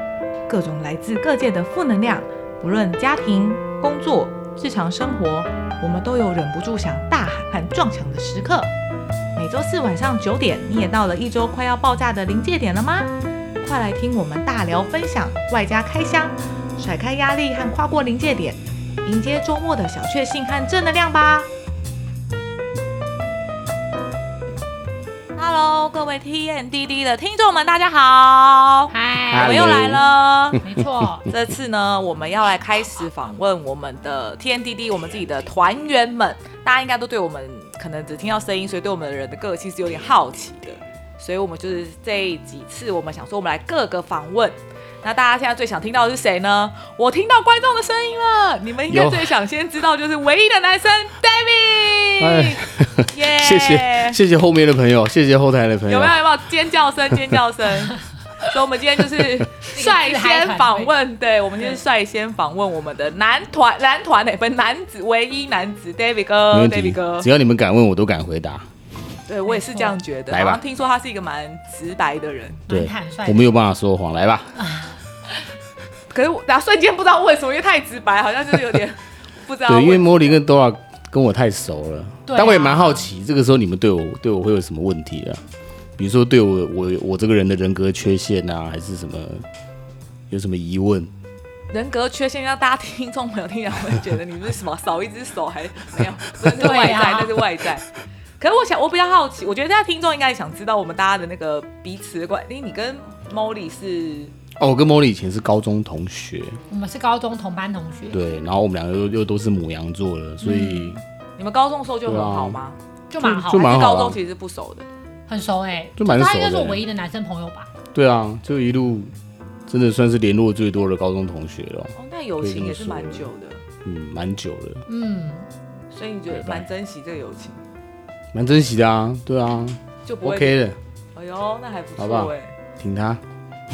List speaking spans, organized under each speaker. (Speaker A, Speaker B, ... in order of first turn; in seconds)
Speaker A: 0.5-8.7, 9.3-21.5, 25.4-30.6, 31.3-54.2, 55.9-67.3, 69.3-72.6, 76.1-80.4, 91.7-97.9, 98.4-104.3, 110.4-112.8, 113.5-114.9, 122.0-123.6, 125.9-127.6, 130.1-130.6, 131.2-132.5
Speaker B: 28.9-29.7, 30.6-31.3, 59.7-60.9, 69.5-70.0, 72.7-73.5, 74.6-75.0, 82.3-83.1, 96.6-97.3, 106.7-108.2, 113.1-113.7, 115.3-117.7, 124.9-125.5
Speaker C: 29.3-30.0, 48.9-49.3, 52.2-56.2, 66.5-68.7, 70.3-70.6, 72.7-74.6, 79.7-85.4, 86.0-89.5, 90.3-91.1, 104.6-106.6, 108.1-111.0, 112.1-112.6, 113.2-114.2, 116.0-116.8, 117.9-119.1, 119.7-123.3, 123.8-124.8, 126.3-126.7, 128.3-130.8, 132.0-133.2